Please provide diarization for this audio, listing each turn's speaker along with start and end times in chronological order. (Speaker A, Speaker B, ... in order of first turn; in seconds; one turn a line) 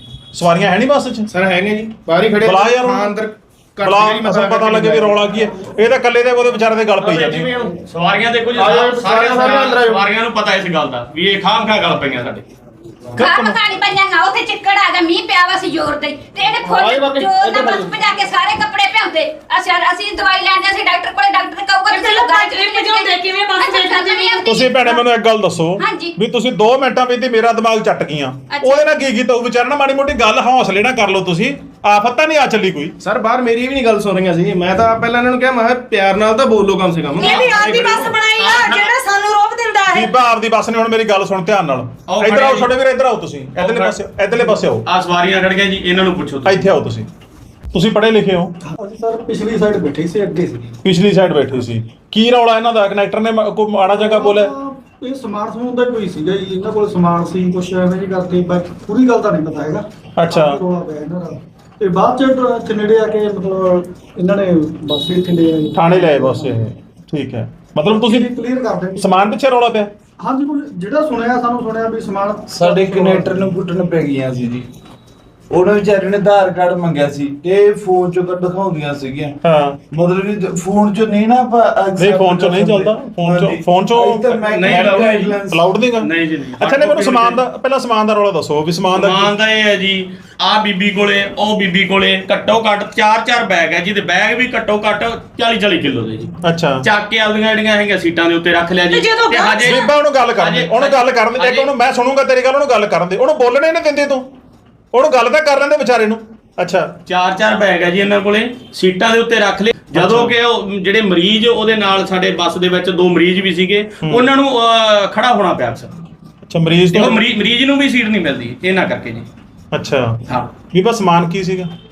Speaker A: 0.3-1.3
Speaker B: 1.3-5.2
Speaker A: 2.4-3.1
Speaker A: 3.8-7.5
Speaker B: 7.1-7.7
Speaker C: 7.6-12.4
Speaker D: 8.6-10.0
Speaker B: 8.8-9.8
Speaker A: 13.2-13.6
Speaker E: 13.2-25.0
Speaker B: 16.8-17.9
Speaker F: 21.9-24.4
Speaker A: 24.5-33.0
Speaker E: 25.8-26.1
Speaker E: 28.5-28.9
Speaker B: 33.0-38.1
Speaker F: 37.2-40.1
Speaker C: 37.2-38.9
Speaker A: 39.9-44.8
Speaker C: 42.1-42.7
Speaker C: 43.6-43.9
Speaker C: 44.9-46.7
Speaker A: 46.5-47.1
Speaker A: 47.7-48.5
Speaker G: 48.6-50.8
Speaker A: 50.8-54.5
Speaker G: 53.9-66.6
Speaker A: 60.2-60.6
Speaker A: 65.7-68.3
Speaker G: 68.0-69.0
Speaker A: 69.0-69.9
Speaker G: 70.2-73.4
Speaker D: 72.5-74.7
Speaker D: 75.5-79.4
Speaker A: 79.4-79.8
Speaker D: 79.9-85.6
Speaker A: 82.0-89.3
Speaker C: 84.5-85.4
Speaker C: 86.0-87.4
Speaker C: 88.9-96.3
Speaker A: 96.4-96.8
Speaker C: 96.8-99.8
Speaker F: 98.9-99.9
Speaker A: 99.6-104.3
Speaker C: 100.4-101.7
Speaker A: 104.9-106.9
Speaker C: 107.1-115.9
Speaker A: 109.9-110.3
Speaker A: 114.0-114.3
Speaker A: 116.5-117.2
Speaker C: 116.9-119.2
Speaker A: 119.7-121.7